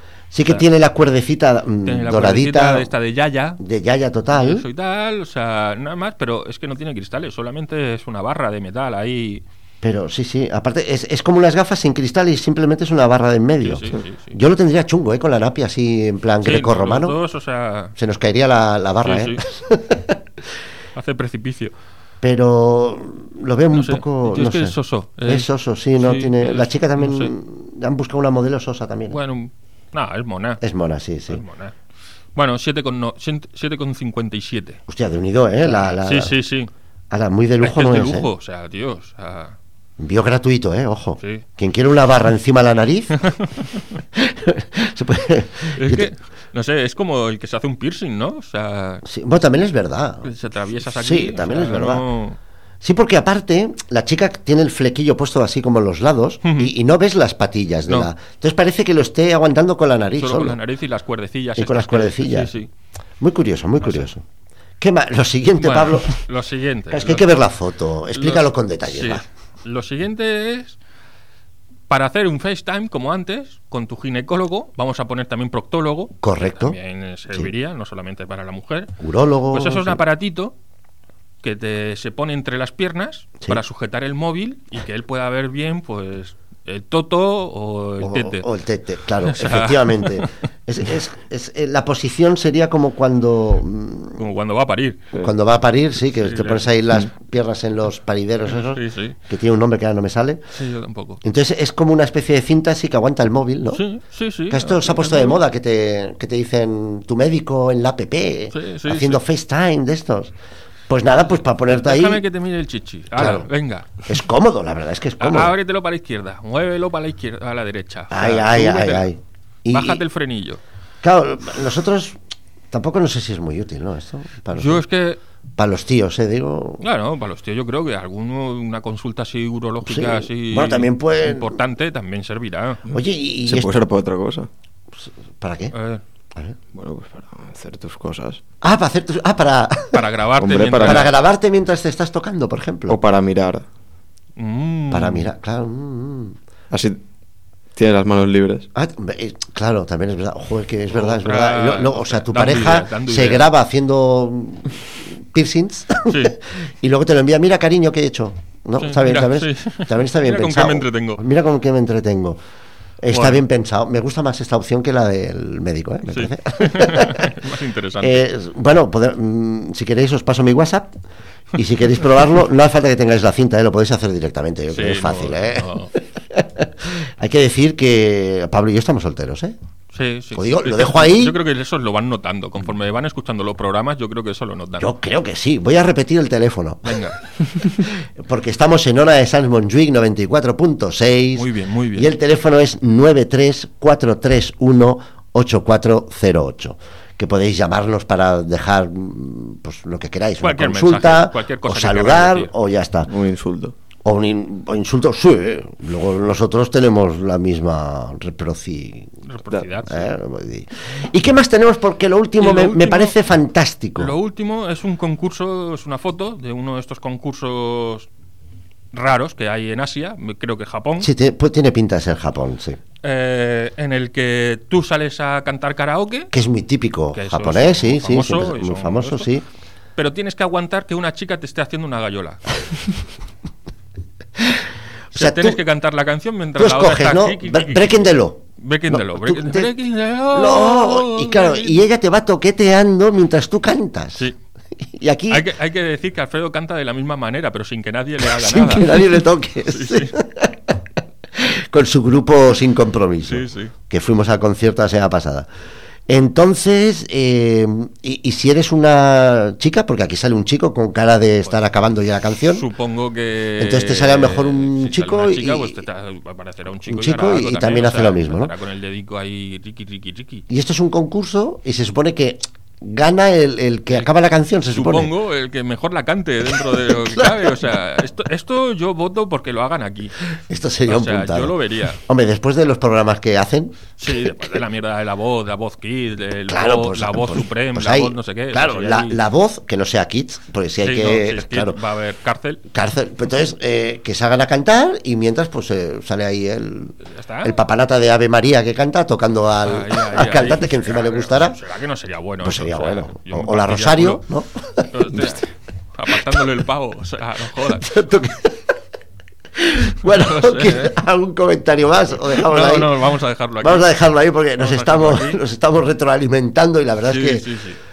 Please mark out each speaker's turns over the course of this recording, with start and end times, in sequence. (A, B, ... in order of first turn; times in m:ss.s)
0:00.3-0:02.9 A
0:01.8-0:03.6 B
0:03.6-0:04.6 A
0:04.3-0:09.4 B
0:09.8-0:17.2 A
0:13.6-0:14.4 B
0:16.4-0:18.0 B
0:18.0-0:20.2 A
0:19.0-0:19.4 B
0:21.0-0:21.7 B
0:22.2-0:29.2 A
0:23.7-0:27.3 B
0:29.1-0:30.6 B
0:30.6-0:31.4 A
0:31.3-0:31.8 B
0:32.4-0:34.8 B
0:34.9-0:36.3 A
0:35.6-0:36.7 B
0:37.1-0:38.3 A
0:37.6-0:39.6 B
0:40.0-0:43.2 A
0:41.2-0:41.4 B
0:43.2-0:43.8 B
0:44.1-0:46.1 A
0:45.8-0:49.0 B
0:49.0-0:50.3 A
0:50.2-0:52.4 B
0:50.9-0:52.0 A
0:52.8-1:00.6 A
0:56.4-0:56.7 B
1:00.2-1:02.7 B
1:01.6-1:02.5 A
1:03.2-1:04.2 A
1:03.8-1:04.1 B
1:04.8-1:06.2 A
1:05.6-1:07.3 B
1:06.9-1:09.2 A
1:08.1-1:10.8 B
1:11.9-1:18.9 B
1:16.2-1:16.8 A
1:19.0-1:20.0 A
1:19.5-1:20.6 B
1:21.4-1:28.5 B
1:28.0-1:34.2 A
1:29.2-1:30.3 B
1:34.2-1:35.0 B
1:35.2-1:40.4 A
1:36.2-1:36.7 B
1:38.5-1:39.2 B
1:40.5-1:41.2 B
1:41.2-1:43.8 A
1:43.7-1:45.4 B
1:44.5-1:50.3 A
1:48.5-1:49.2 B
1:50.9-1:52.2 A
1:51.7-1:53.9 B
1:53.1-1:53.5 A
1:54.0-1:55.6 A
1:55.2-1:59.1 B
1:58.1-2:00.0 A
1:59.7-2:00.6 B
2:01.0-2:02.2 A
2:02.7-2:04.8 A
2:04.5-2:05.2 B
2:05.6-2:06.8 A
2:06.8-2:12.8 B
2:09.8-2:11.6 A
2:12.9-2:13.8 A
2:12.9-2:14.5 C
2:15.0-2:15.7 A
2:15.7-2:16.0 B
2:16.7-2:18.4 C
2:18.6-2:20.0 A
2:19.9-2:21.1 B
2:20.4-2:21.1 C
2:20.8-2:23.0 A
2:22.9-2:23.6 C
2:24.4-2:25.3 B
2:24.9-2:26.4 A
2:26.7-2:27.0 C
2:27.8-2:28.7 C
2:28.8-2:42.4 A
2:30.9-2:33.5 B
2:36.1-2:36.4 B
2:38.8-2:41.2 B
2:43.0-2:47.3 A
2:43.1-2:43.4 B
2:46.1-2:48.2 B
2:48.0-2:51.0 A
2:51.5-2:59.6 A
2:54.7-2:55.9 B
2:59.9-3:04.9 B
3:00.3-3:01.4 A
3:04.8-3:07.0 A
3:06.9-3:07.2 B
3:07.8-3:23.1 A
3:11.4-3:12.1 B
3:20.4-3:22.5 B
3:23.1-3:23.7 C
3:24.0-3:29.1 A
3:29.3-3:30.1 B
3:29.9-3:34.1 A
3:32.4-3:33.1 B
3:34.0-3:38.1 B
3:38.9-3:41.1 B
3:41.0-3:42.8 A
3:43.0-3:46.3 B
3:46.3-3:49.4 A
3:47.1-3:49.3 B
3:50.0-3:52.5 B
3:54.4-3:55.6 A
3:55.1-4:01.8 B
3:56.6-3:59.8 A
4:00.3-4:04.3 A
4:04.8-4:05.5 A
4:05.3-4:09.1 B
4:08.2-4:10.8 A
4:09.7-4:10.2 B
4:11.4-4:15.5 A
4:13.3-4:13.7 B
4:16.1-4:22.7 A
4:22.5-4:30.4 B
4:23.6-4:25.8 A
4:26.9-4:28.5 A
4:30.5-4:35.1 A
4:34.7-4:40.1 B
4:36.7-4:37.5 A
4:40.4-4:44.6 A
4:40.9-4:42.0 B
4:44.0-4:49.2 B
4:46.5-4:51.8 A
4:50.8-4:52.6 B
4:52.7-5:01.6 A
4:57.0-4:57.5 B
4:59.6-5:04.2 B
5:02.4-5:05.4 A
5:04.9-5:07.9 B
5:07.6-5:08.7 A
5:09.6-5:12.9 A
5:10.1-5:10.9 B
5:12.3-5:13.9 B
5:13.6-5:17.4 A
5:14.6-5:15.4 B
5:17.0-5:17.8 B